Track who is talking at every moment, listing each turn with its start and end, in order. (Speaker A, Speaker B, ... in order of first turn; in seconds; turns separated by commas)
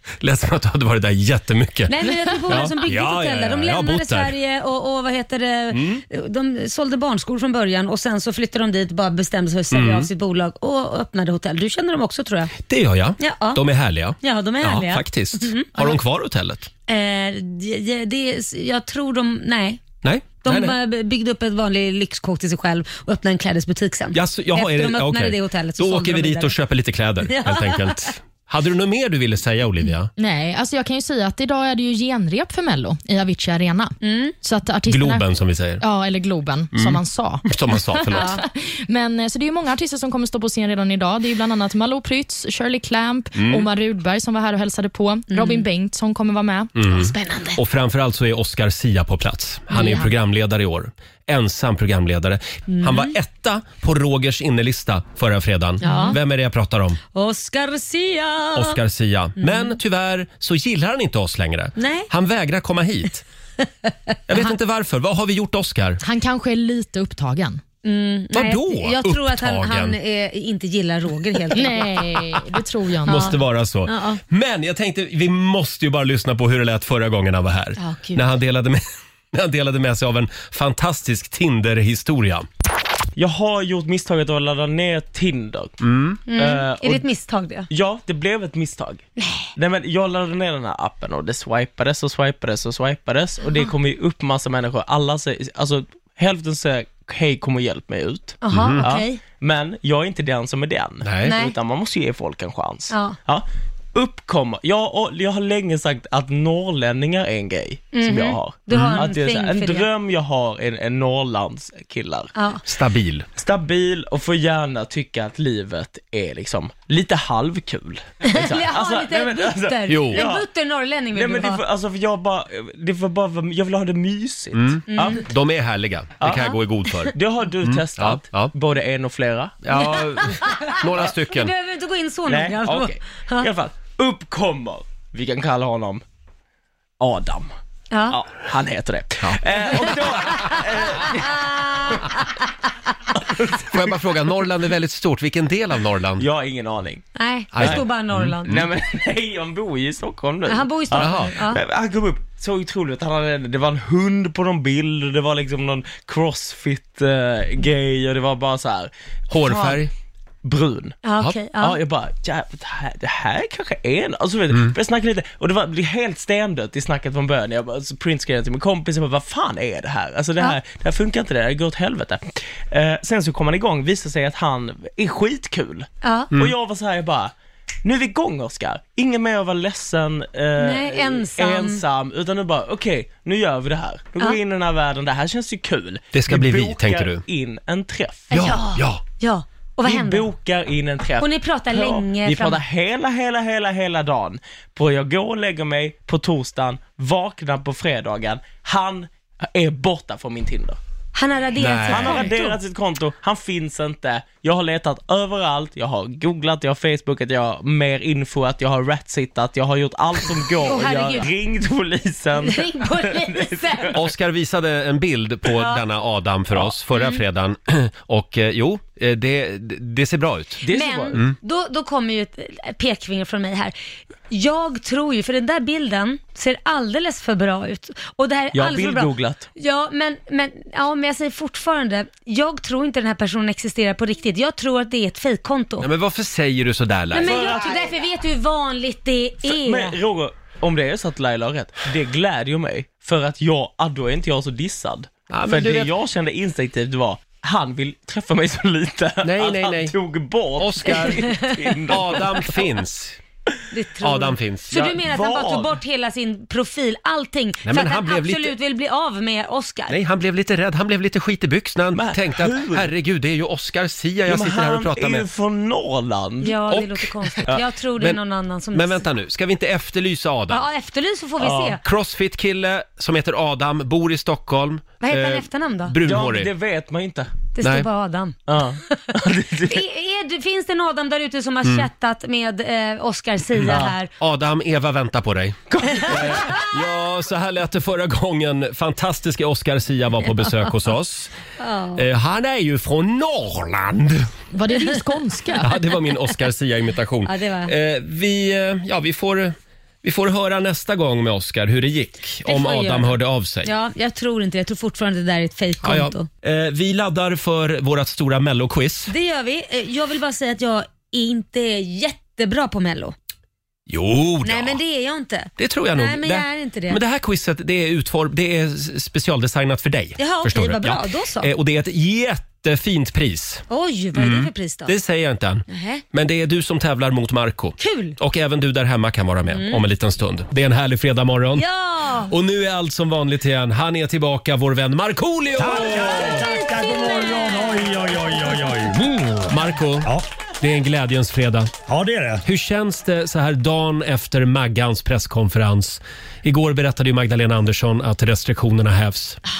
Speaker A: 0.2-1.9, Speaker B: 1.9-12.5, Speaker A: 2.5-4.3, Speaker A: 5.7-6.0, Speaker A: 9.7-10.1, Speaker A: 12.7-16.7, Speaker B: 13.2-13.6, Speaker B: 14.2-16.0, Speaker B: 16.9-19.8, Speaker A: 20.0-20.8, Speaker B: 20.4-26.5, Speaker A: 24.1-30.1, Speaker B: 27.2-28.0, Speaker C: 30.2-35.2, Speaker B: 34.0-34.3, Speaker A: 34.9-35.8, Speaker C: 35.8-46.7, Speaker A: 36.7-38.3, Speaker B: 38.1-38.4, Speaker A: 43.3-43.7, Speaker B: 45.3-45.6, Speaker A: 46.8-57.0, Speaker B: 46.9-47.6, Speaker B: 49.7-50.1, Speaker B: 52.7-53.1, Speaker B: 55.8-56.2, Speaker C: 55.8-56.1, Speaker B: 57.1-58.8, Speaker A: 58.5-63.2, Speaker B: 59.4-59.8, Speaker B: 61.8-62.1, Speaker A: 64.3-66.0, Speaker C: 66.0-67.6, Speaker B: 67.8-72.1, Speaker A: 68.3-70.0, Speaker C: 71.5-73.3, Speaker B: 73.0-74.2, Speaker A: 73.0-78.8, Speaker B: 77.8-78.2, Speaker A: 79.3-82.5, Speaker D: 83.2-85.8, Speaker A: 85.8-86.2, Speaker B: 86.3-87.7, Speaker D: 86.3-87.0, Speaker D: 87.7-89.0, Speaker B: 89.2-89.5, Speaker D: 89.5-112.3, Speaker B: 98.4-99.2, Speaker A: 98.5-98.9, Speaker A: 101.0-101.3, Speaker B: 101.2-101.5, Speaker B: 102.9-103.2, Speaker B: 107.9-109.9, Speaker A: 108.7-109.0, Speaker B: 112.3-112.6, Speaker A: 112.6-113.3, Speaker D: 113.4-120.5, Speaker B: 118.2-121.6, Speaker A: 119.9-120.2, Speaker D: 121.1-125.2, Speaker A: 124.5-128.5, Speaker B: 124.9-125.2, Speaker D: 126.2-126.5, Speaker D: 127.1-129.7, Speaker A: 129.6-131.5, Speaker B: 129.7-133.5, Speaker D: 132.3-136.0, Speaker D: 137.0-137.5, Speaker B: 137.9-138.2, Speaker D: 138.1-141.5, Speaker B: 141.2-142.2, Speaker D: 143.3-143.6, Speaker A: 143.7-146.2, Speaker D: 146.2-147.0, Speaker B: 147.1-148.5, Speaker A: 147.5-148.6, Speaker D: 147.6-147.8, Speaker D: 148.4-158.9, Speaker B: 150.5-151.6, Speaker A: 150.9-151.3, Speaker A: 159.3-159.9, Speaker D: 159.4-159.8, Speaker D: 160.4-161.0, Speaker B: 161.0-161.8, Speaker D: 161.6-177.3, Speaker B: 176.0-176.3, Speaker D: 177.8-188.5, Speaker B: 180.6-181.8, Speaker A: 186.1-187.2, Speaker B: 188.3-190.3, Speaker A: 188.3-189.0, Speaker D: 189.8-200.8, Speaker B: 191.2-192.6, Speaker B: 201.1-202.6, Speaker A: 201.6-202.3, Speaker D: 201.9-214.0, Speaker B: 210.6-211.3, Speaker B: 212.4-213.9, Speaker A: 213.9-220.6, Speaker B: 215.5-215.8, Speaker B: 216.9-217.2, Speaker D: 220.6-221.2, Speaker B: 220.7-223.7, Speaker B: 224.3-235.9, Speaker D: 228.5-229.5, Speaker A: 235.8-237.5, Speaker D: 237.1-238.1, Speaker B: 237.1-239.9, Speaker D: 239.4-252.6, Speaker A: 245.3-245.9, Speaker A: 249.2-249.9, Speaker A: 250.6-253.2, Speaker B: 251.2-251.4, Speaker B: 253.7-259.9, Speaker A: 254.0-255.0, Speaker D: 255.0-255.7, Speaker A: 257.6-258.5, Speaker A: 259.9-265.2, Speaker D: 261.9-262.9, Speaker D: 264.2-266.7, Speaker B: 266.4-269.0, Speaker A: 266.7-268.2, Speaker A: 268.7-270.6, Speaker B: 270.5-271.8, Speaker D: 271.4-271.8, Speaker A: 271.8-276.5, Speaker B: 275.0-275.9, Speaker D: 276.0-277.3, Speaker B: 277.5-278.4, Speaker A: 277.6-277.9, Speaker D: 278.5-279.8, Speaker B: 279.7-284.1, Speaker D: 283.6-283.9, Speaker A: 284.2-291.3, Speaker D: 285.7-286.6, Speaker B: 291.6-292.0, Speaker A: 292.0-294.3, Speaker C: 294.5-295.7, Speaker A: 295.6-303.7, Speaker B: 297.2-297.7, Speaker B: 302.4-306.3, Speaker A: 305.8-309.1, Speaker B: 309.1-313.1, Speaker A: 313.9-314.8, Speaker B: 314.4-317.0, Speaker A: 315.6-331.6, Speaker B: 320.2-321.5, Speaker B: 323.7-324.9, Speaker B: 325.7-326.0, Speaker B: 327.8-328.1, Speaker B: 329.5-329.8, Speaker B: 331.6-332.3, Speaker A: 332.3-336.5, Speaker E: 335.6-340.2, Speaker B: 335.9-338.4, Speaker A: 339.5-341.7, Speaker E: 341.9-342.4, Speaker A: 342.4-349.4